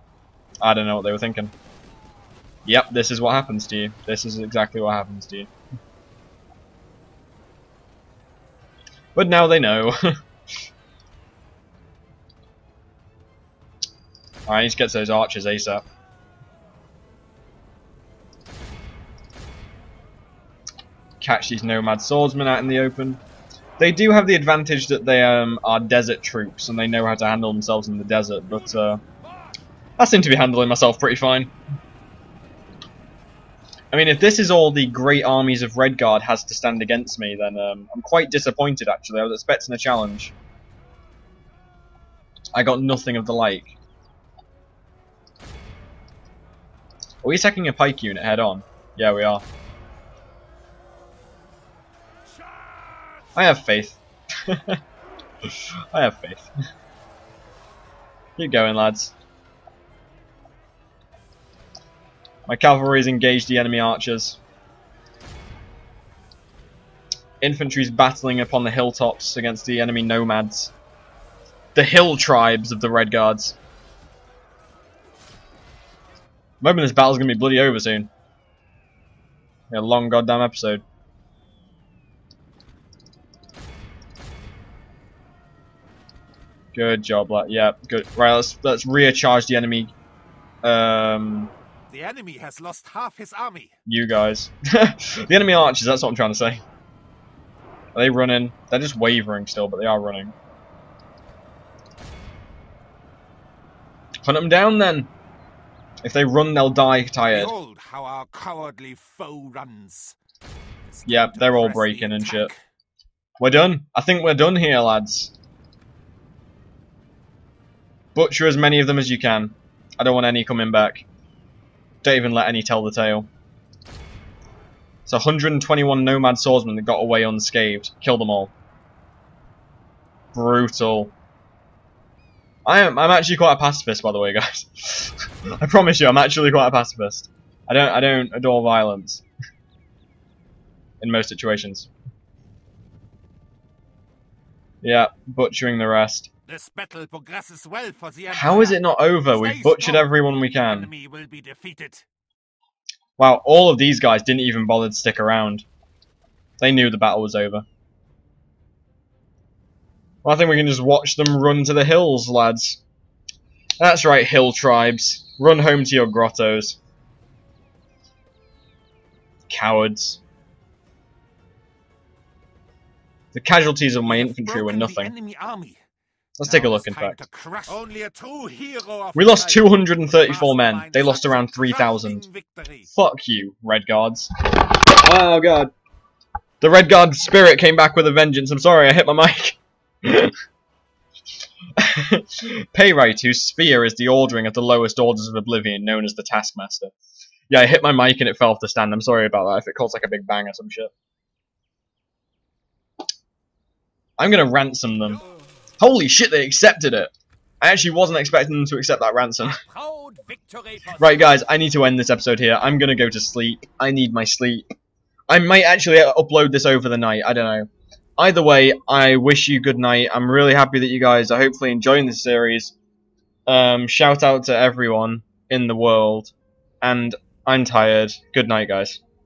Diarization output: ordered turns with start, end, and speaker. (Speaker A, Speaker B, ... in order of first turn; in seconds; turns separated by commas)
Speaker A: 0.6-1.5, Speaker A: 2.6-5.5, Speaker A: 9.2-10.0, Speaker A: 14.5-15.8, Speaker A: 21.2-23.2, Speaker A: 23.8-29.0, Speaker A: 30.0-31.5, Speaker A: 33.9-40.3, Speaker A: 42.5-43.8, Speaker A: 47.2-49.4, Speaker A: 53.4-54.8, Speaker A: 55.5-56.5, Speaker A: 58.4-59.1, Speaker A: 62.5-64.4, Speaker A: 67.4-70.7, Speaker A: 71.8-73.6, Speaker A: 76.6-78.1, Speaker A: 79.7-80.8, Speaker A: 86.7-89.9, Speaker A: 90.6-91.5, Speaker B: 91.9-93.7, Speaker A: 93.9-96.6, Speaker A: 97.9-100.3, Speaker A: 104.2-105.1, Speaker A: 106.0-107.5, Speaker B: 107.3-110.2, Speaker B: 110.9-112.6, Speaker A: 111.1-112.5, Speaker A: 113.4-115.3, Speaker A: 118.2-121.0, Speaker A: 122.0-123.3, Speaker A: 125.1-128.5, Speaker A: 130.3-131.1, Speaker A: 132.7-139.2, Speaker A: 141.0-141.9, Speaker A: 144.8-146.3, Speaker B: 146.5-152.1, Speaker A: 148.3-150.9, Speaker A: 153.2-155.7, Speaker A: 156.6-157.7, Speaker A: 160.2-162.8, Speaker A: 163.8-166.8, Speaker A: 169.5-170.2, Speaker A: 173.3-175.1, Speaker B: 174.1-175.8, Speaker A: 176.4-177.2, Speaker B: 176.4-182.9, Speaker A: 179.2-182.3, Speaker A: 182.9-185.7, Speaker A: 186.6-190.3, Speaker A: 191.8-196.9, Speaker A: 197.5-200.9, Speaker A: 204.2-205.2, Speaker A: 205.8-209.6, Speaker B: 209.4-211.4, Speaker A: 211.0-214.7, Speaker A: 215.3-217.7, Speaker A: 218.2-222.8, Speaker A: 223.5-229.0